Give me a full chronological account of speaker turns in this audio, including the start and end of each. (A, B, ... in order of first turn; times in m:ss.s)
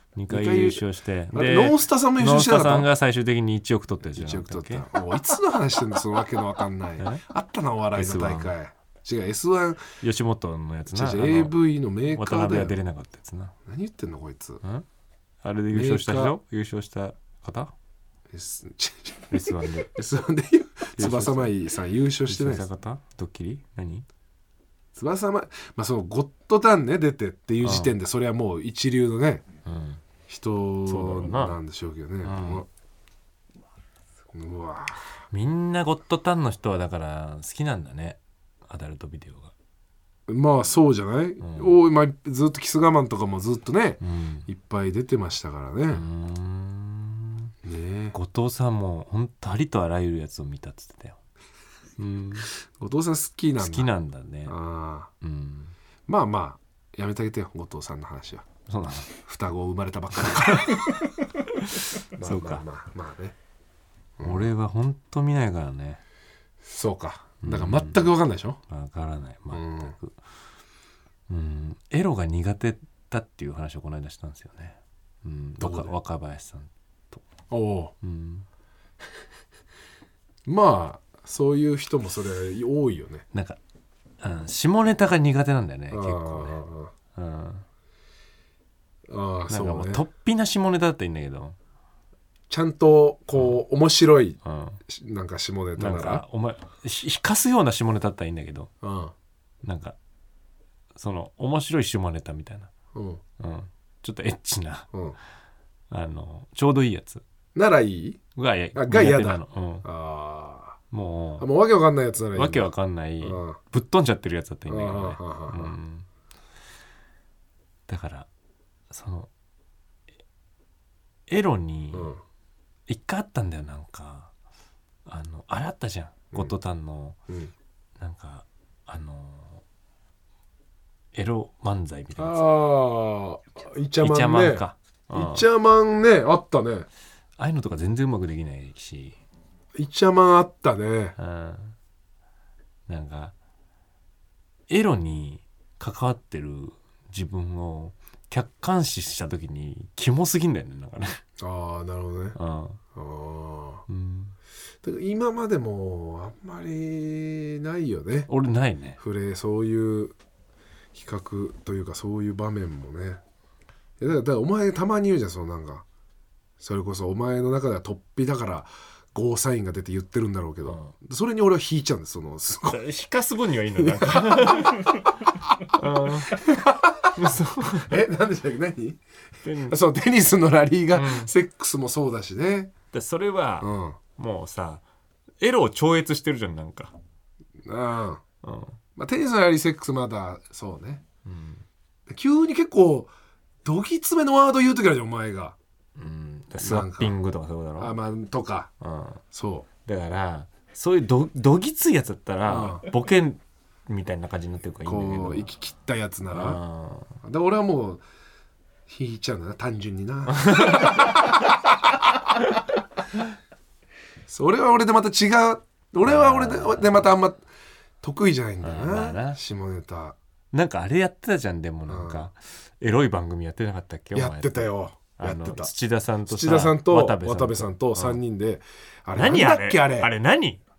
0:00.2-0:04.9 A
0:00.3-0:02.9 B
0:04.1-0:09.8 B
0:07.9-0:08.5 A
0:10.0-0:11.6 A
0:10.9-0:12.8 B
0:12.1-0:13.6 A
0:13.7-0:14.6 B
0:15.4-0:17.7 A
0:15.7-0:16.4 B
0:18.3-0:22.7 B
0:19.3-0:19.9 A
0:21.0-0:21.5 A
0:22.3-0:24.0 A
0:24.9-0:29.4 B
0:27.6-0:27.9 A
0:29.7-0:30.0 A
0:30.3-0:32.7 B
0:30.9-0:31.6 A
0:32.2-0:32.6 A
0:34.3-0:35.2 B
0:35.3-0:39.5 A
0:40.3-0:46.0 B
0:41.4-0:41.8 A
0:44.0-0:44.5 A
0:45.9-0:47.5 A
0:47.6-0:48.2 B
0:48.1-0:51.2 A
0:52.0-0:52.5 A
0:52.5-0:53.9 B
0:53.6-0:54.6 A
0:54.4-0:55.1 B
0:55.2-0:55.8 A
0:56.1-0:58.4 B
0:58.7-0:59.1 A
0:59.1-1:01.1 B
1:00.3-1:02.6 A
1:02.2-1:03.4 B
1:04.2-1:04.4 B
1:04.2-1:06.0 A
1:06.6-1:08.6 B
1:07.4-1:08.1 A
1:08.7-1:10.2 A
1:09.5-1:09.9 B
1:11.3-1:17.2 A
1:15.6-1:15.9 B
1:17.5-1:17.9 B
1:18.0-1:18.4 A
1:20.4-1:23.2 B
1:23.3-1:23.6 A
1:24.2-1:27.6 A
1:25.9-1:26.9 B
1:29.1-1:30.0 B
1:29.5-1:31.6 A
1:32.5-1:36.2 B
1:33.4-1:33.6 A
1:34.4-1:34.8 A
1:35.8-1:38.7 A
1:38.8-1:39.1 B
1:39.6-1:40.0 A
1:41.0-1:42.7 A
1:42.9-1:43.2 B
1:43.4-1:44.9 A
1:45.9-1:47.2 A
1:47.6-1:48.2 B
1:48.4-1:49.9 A
1:48.8-1:50.8 B
1:50.9-1:51.4 A
1:51.4-1:53.6 B
1:52.4-1:56.1 A
1:54.7-1:55.8 B
1:57.9-1:58.3 A
1:58.9-1:59.3 A
2:01.3-2:02.2 A
2:01.9-2:02.2 B
2:02.9-2:04.3 A
2:05.1-2:07.2 A
2:08.0-2:09.6 A
2:11.2-2:12.4 A
2:12.2-2:16.9 B
2:14.0-2:15.5 A
2:17.4-2:19.2 A
2:19.8-2:21.2 B
2:21.2-2:21.8 A
2:22.9-2:23.3 A
2:24.7-2:31.2 A
2:31.4-2:32.4 B
2:32.3-2:32.8 A
2:32.9-2:33.8 B
2:33.9-2:34.3 A
2:34.8-2:38.3 B
2:38.3-2:39.0 A
2:39.0-2:40.2 B
2:40.9-2:43.2 B
2:44.0-2:45.8 B
2:46.6-2:52.8 B
2:50.7-2:50.9 A
2:52.7-2:55.1 A
2:53.8-2:55.0 B
2:55.7-2:56.4 A
2:56.2-2:59.0 B
2:57.2-2:58.0 A
2:59.4-2:59.8 A
2:59.7-3:02.7 B
3:00.9-3:01.3 A
3:02.9-3:04.8 A
3:03.6-3:04.0 B
3:05.4-3:06.9 A
3:07.6-3:08.2 B
3:08.4-3:08.8 A
3:09.0-3:11.0 B
3:11.3-3:11.6 A
3:12.1-3:13.1 B
3:13.6-3:15.6 B
3:16.0-3:17.9 A
3:16.6-3:17.2 B
3:17.8-3:18.7 B
3:18.8-3:19.2 A
3:19.3-3:19.7 B
3:19.8-3:25.5 A
3:22.5-3:22.8 B
3:24.8-3:26.6 B
3:26.3-3:27.2 A
3:27.2-3:28.0 B
3:28.9-3:32.3 B
3:30.3-3:31.3 A
3:34.3-3:37.4 B
3:36.0-3:37.1 A
3:38.0-3:40.2 B
3:38.6-3:39.4 A
3:40.5-3:48.2 A
3:41.9-3:42.3 B
3:44.1-3:45.7 B
3:46.3-3:50.1 B
3:49.2-3:50.6 A